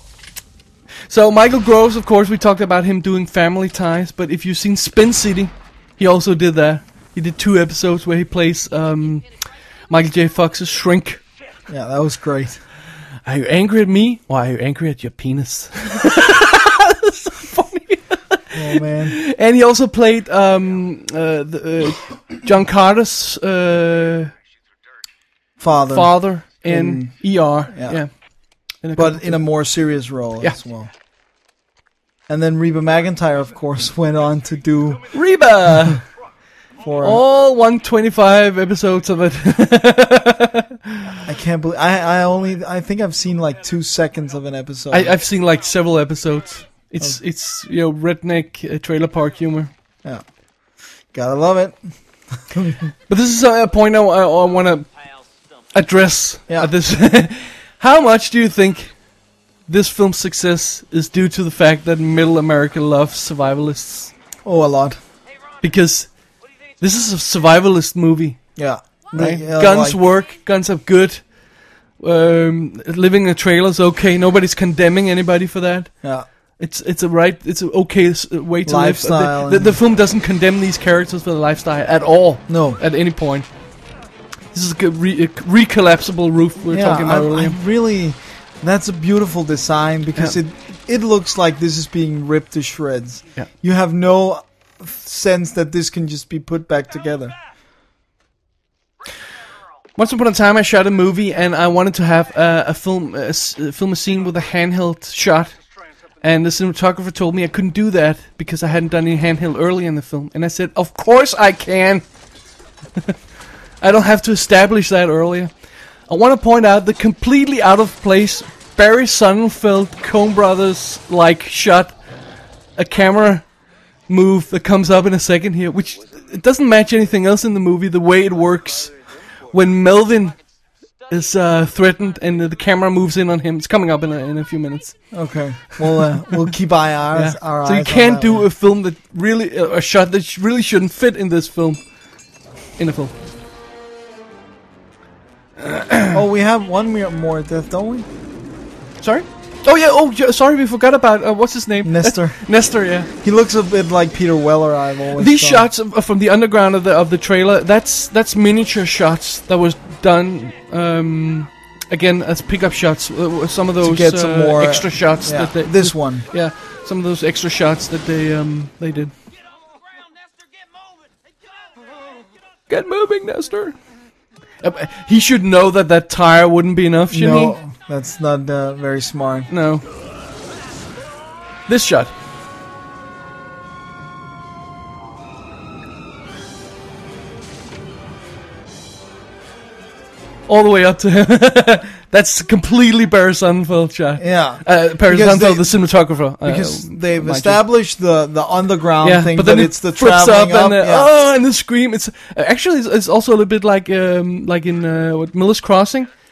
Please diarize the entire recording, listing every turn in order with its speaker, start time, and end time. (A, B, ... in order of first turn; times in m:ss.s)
0:01.1-0:09.3 A
0:09.9-0:11.2 A
0:11.7-0:12.6 B
0:13.2-0:24.3 A
0:18.5-0:19.2 B
0:25.6-0:27.1 B
0:25.9-0:28.1 A
0:27.7-0:28.0 B
0:28.8-0:29.4 A
0:29.0-0:30.9 B
0:32.3-0:35.1 B
0:35.1-0:36.0 A
0:36.8-0:37.2 B
0:37.0-0:41.2 A
0:41.2-0:45.2 B
0:44.9-0:49.7 A
0:51.1-0:51.8 B
0:52.5-0:52.9 B
0:53.1-0:54.9 A
0:54.7-0:55.7 C
0:55.7-0:59.0 A
0:59.7-1:04.1 A
1:04.4-1:05.0 B
1:05.6-1:06.1 A
1:06.8-1:08.4 A
1:08.6-1:10.0 B
1:09.1-1:11.3 A
1:12.0-1:15.9 A
1:16.6-1:23.5 A
1:18.6-1:19.8 B
1:22.5-1:22.8 B
1:24.5-1:27.6 A
1:26.7-1:37.4 B
1:40.0-1:45.6 A
1:46.2-1:52.0 A
1:53.8-1:55.5 A
1:56.1-2:02.0 A
2:02.8-2:03.5 A
2:04.1-2:08.9 A
2:08.8-2:09.6 C
2:09.5-2:10.4 A
2:11.0-2:11.3 C
2:11.1-2:15.0 A
2:15.1-2:18.4 B
2:15.8-2:16.5 A
2:17.1-2:21.8 A
2:22.8-2:23.1 A
2:25.6-2:26.2 A
2:26.1-2:28.1 B
2:29.0-2:33.1 A
2:31.8-2:32.4 B
2:33.2-2:35.7 B
2:35.2-2:49.1 A
2:43.8-2:46.3 B
2:49.5-2:51.2 C
2:52.7-2:53.8 A
2:54.6-2:57.6 A
2:57.1-2:59.5 B
2:59.5-2:59.9 A
3:01.7-3:02.1 A
3:10.5-3:17.6 A
3:14.2-3:15.7 B
3:16.4-3:21.1 B
3:19.0-3:26.1 A